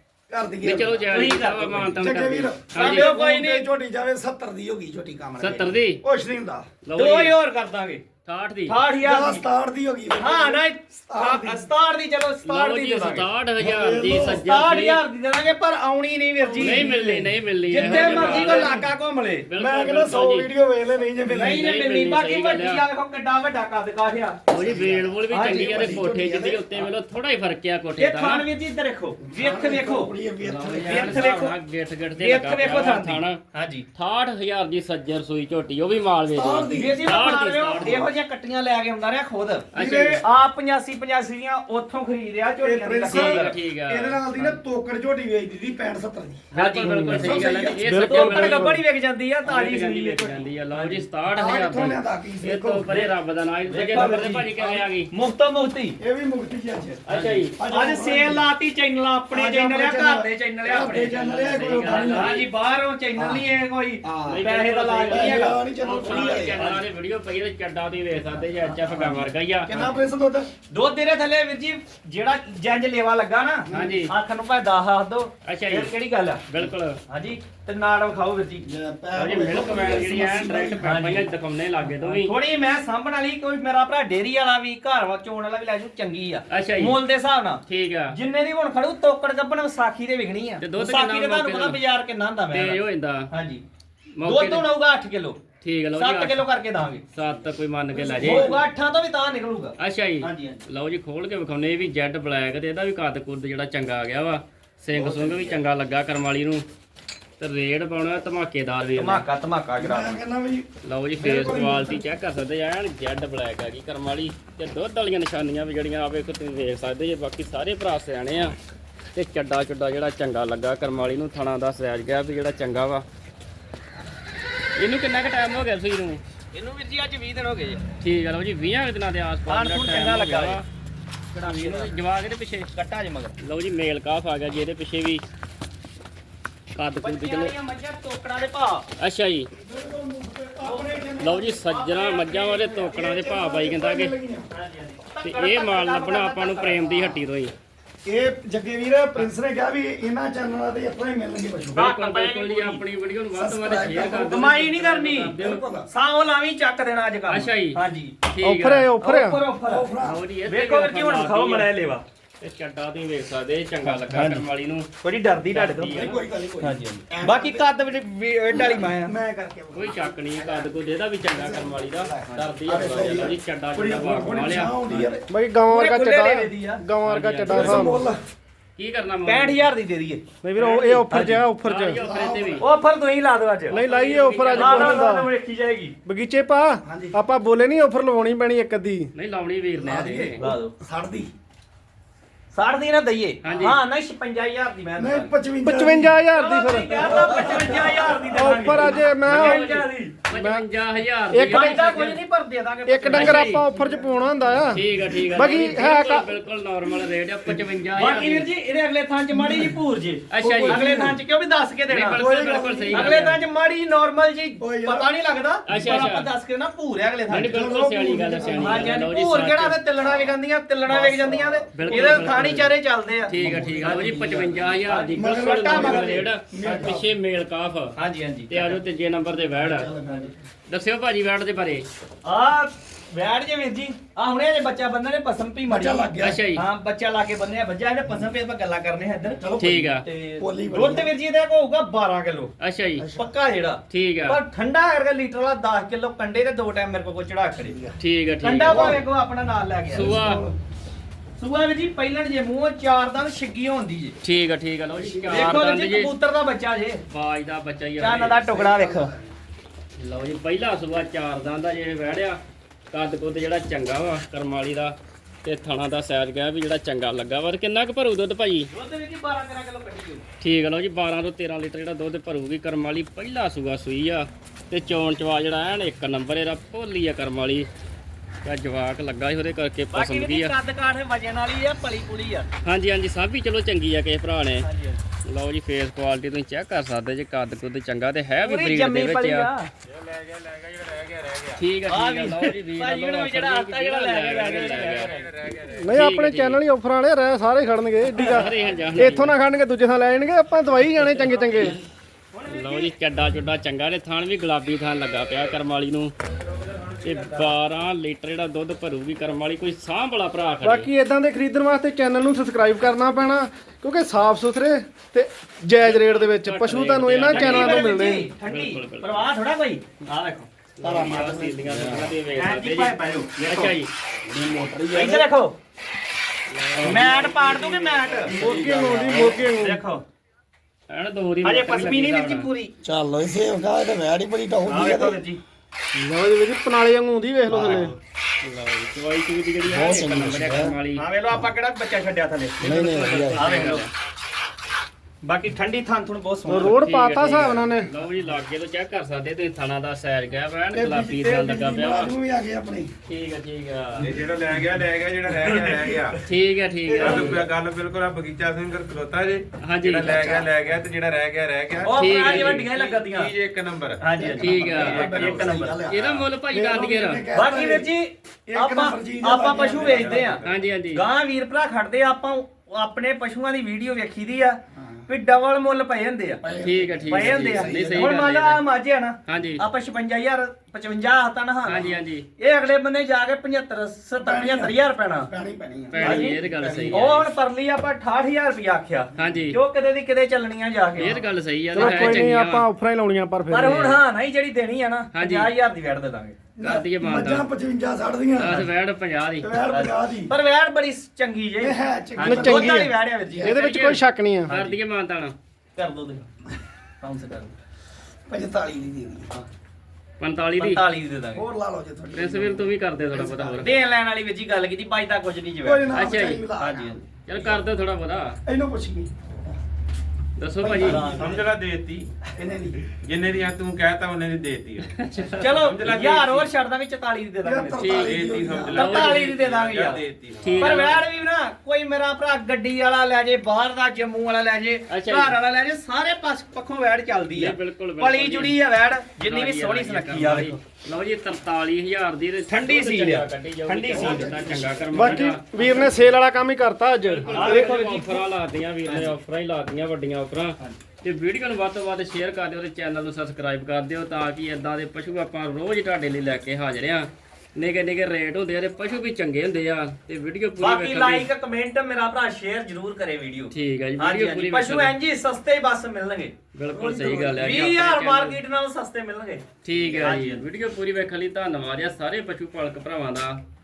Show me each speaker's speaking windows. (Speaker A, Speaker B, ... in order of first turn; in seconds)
Speaker A: 0.3-1.1, 1.9-6.7, 9.0-11.7, 13.6-14.5, 16.4-17.0, 17.8-18.9, 19.6-21.8, 24.5-26.6, 29.2-31.4, 36.3-37.0, 37.8-38.1, 39.8-40.2, 42.9-43.3, 44.0-48.7, 51.3-52.9, 53.9-54.9, 56.0-57.0, 57.6-58.5, 59.3-62.5, 63.2-63.5, 64.0-64.5, 65.1-66.6, 68.4-70.5, 73.7-74.1, 78.6-80.8, 97.9-98.6, 109.8-112.0, 139.6-141.4, 142.6-144.5, 148.1-151.9, 153.3-154.4, 155.3-155.9, 159.7-160.2, 165.9-167.7, 168.5-170.7, 171.2-175.2, 177.5-178.2, 182.0-182.7, 186.8-187.2, 189.8-191.3, 195.0-196.2, 196.9-198.9, 203.7-205.4, 209.3-209.8, 210.4-211.2, 212.1-213.3, 214.6-215.1, 217.5-219.0, 220.0-220.4, 220.9-222.5, 223.3-227.1, 229.6-230.4, 235.7-236.4, 239.4-241.1, 243.0-243.3, 247.7-248.0, 248.6-249.0, 249.9-250.6, 255.0-255.3, 258.4-259.3, 320.8-322.1, 324.2-325.3, 327.0-327.5, 328.3-329.5, 332.8-335.2, 337.6-337.9, 339.6-340.8, 342.6-343.5, 350.7-352.9, 360.0-360.5, 364.2-367.9, 368.5-370.4, 374.8-375.0, 376.4-378.1, 381.7-381.9, 384.2-387.1, 396.6-398.7, 399.4-400.3, 401.6-402.8, 408.3-409.3, 411.3-413.8, 415.6-417.0, 418.5-419.6, 420.6-421.3, 422.3-422.8, 427.4-429.0, 443.9-445.0, 466.7-467.5
Speaker B: 0.6-3.1, 5.4-6.0, 6.8-7.3, 8.2-8.8, 12.4-15.0, 16.6-18.9, 19.5-20.5, 21.4-22.8, 24.5-28.5, 30.4-33.4, 34.0-38.1, 39.7-40.2, 43.1-44.6, 46.5-48.8, 49.5-55.1, 57.1-57.5, 60.8-62.5, 64.2-70.0, 73.7-74.1, 75.5-75.9, 76.5-77.0, 79.2-82.3, 86.5-87.0, 87.7-88.2, 90.6-91.8, 92.5-93.3, 94.2-94.7, 95.6-96.4, 97.1-98.6, 99.8-106.7, 107.4-109.2, 110.8-118.6, 119.1-123.0, 124.8-126.2, 128.0-130.6, 131.4-132.7, 133.4-135.2, 136.8-137.5, 139.0-139.5, 141.2-144.2, 145.2-147.5, 151.8-155.6, 157.3-157.8, 158.3-158.9, 160.0-161.7, 162.4-164.9, 165.5-166.2, 169.7-175.2, 177.0-178.0, 178.8-179.7, 181.6-182.7, 183.7-185.1, 189.2-190.4, 193.4-193.8, 199.2-202.2, 203.1-203.6, 204.7-208.5, 210.3-211.0, 211.9-213.4, 215.7-216.3, 217.3-219.8, 221.8-222.7, 223.2-227.9, 228.5-229.9, 230.7-231.9, 236.2-236.6, 239.6-240.0, 242.6-243.1, 243.9-244.4, 248.0-249.0, 249.9-250.5, 254.2-256.1, 257.1-258.4, 260.0-262.4, 262.9-268.7, 270.4-277.7, 278.4-280.5, 282.6-284.7, 285.2-289.5, 291.6-295.1, 295.9-296.6, 298.1-299.4, 301.0-301.8, 302.5-306.1, 307.0-310.9, 315.8-319.2, 320.8-323.9, 326.5-328.4, 330.9-332.5, 337.5-337.8, 338.4-341.1, 342.6-343.9, 346.6-352.1, 353.1-354.2, 356.3-357.5, 359.6-360.2, 361.9-362.7, 364.4-367.2, 370.4-371.0, 376.6-378.6, 379.3-379.6, 381.6-382.3, 385.9-387.3, 389.2-389.6, 391.0-392.7, 393.6-394.0, 395.1-395.5, 396.6-397.5, 398.4-399.5, 403.4-405.4, 410.2-410.8, 412.1-413.7, 415.9-416.5, 417.2-418.4, 420.4-421.1, 424.9-425.6, 427.8-429.4, 430.4-431.0, 434.9-435.4, 437.3-438.6, 439.2-446.1, 447.0-461.3, 463.5-464.9, 466.5-468.4, 469.6-473.4
Speaker C: 1.1-2.0, 2.8-3.7, 7.0-8.0, 8.7-9.4, 10.2-13.3, 14.2-19.5, 21.3-24.5, 25.3-25.9, 28.0-30.1, 30.9-31.6, 32.2-33.9, 36.7-43.6, 46.5-51.0, 53.7-54.5, 55.1-56.0, 57.1-66.8, 70.7-76.5, 77.1-78.7, 80.8-81.3, 82.0-93.6, 94.2-95.4, 95.9-97.0, 98.2-100.6, 104.9-105.6, 109.0-110.2, 126.5-127.8, 129.5-130.6, 131.3-131.9, 132.7-133.4, 137.0-138.9, 140.6-142.8, 144.5-147.2, 151.8-152.8, 154.1-155.3, 155.9-158.2, 159.0-159.9, 160.5-162.0, 163.9-164.4, 165.0-166.1, 166.6-169.2, 175.7-176.8, 179.3-181.4, 182.6-183.8, 184.5-185.9, 190.4-190.7, 192.5-195.3, 196.3-200.2, 201.5-203.6, 208.0-212.3, 212.9-217.7, 218.5-226.3, 228.0-228.8, 232.2-239.4, 240.0-242.5, 243.2-247.8, 248.4-250.2, 251.4-254.1, 255.3-257.0, 258.0-259.1, 268.7-270.2, 279.9-282.5, 284.6-285.0, 288.4-289.7, 291.9-295.3, 298.2-298.9, 301.5-302.9, 306.6-307.5, 317.3-320.5, 322.3-323.7, 324.9-325.6, 326.8-328.4, 329.1-330.0, 331.4-332.7, 334.7-335.4, 341.0-343.9, 345.2-346.8, 357.0-357.3, 361.8-363.3, 364.0-365.8, 367.3-370.4, 370.9-376.4, 377.1-381.8, 382.4-385.3, 386.0-386.4, 386.9-391.2, 391.8-392.3, 393.5-396.4, 399.7-403.6, 404.5-404.8, 405.8-406.3, 407.0-407.5, 410.6-411.5, 413.6-415.9, 416.6-417.0, 420.6-421.5, 425.4-428.0, 428.7-430.0, 430.6-440.6, 442.5-444.7, 447.3-448.3, 448.9-449.1, 460.6-466.4, 467.4-470.4
Speaker D: 42.7-43.2, 43.9-44.2, 158.4-159.4, 175.3-178.1, 180.4-182.0, 183.7-185.3, 186.1-189.1, 195.6-197.4, 198.3-200.7, 201.3-201.7, 202.9-206.3, 295.6-301.8, 310.6-318.3, 328.3-329.8, 335.9-337.9, 346.5-347.9, 391.7-393.9, 402.2-404.5, 444.9-447.7
Speaker E: 289.9-291.6, 294.9-295.8, 354.0-356.2, 356.9-364.1, 364.8-365.6, 369.5-370.6, 421.0-422.1, 423.0-426.5, 427.9-430.6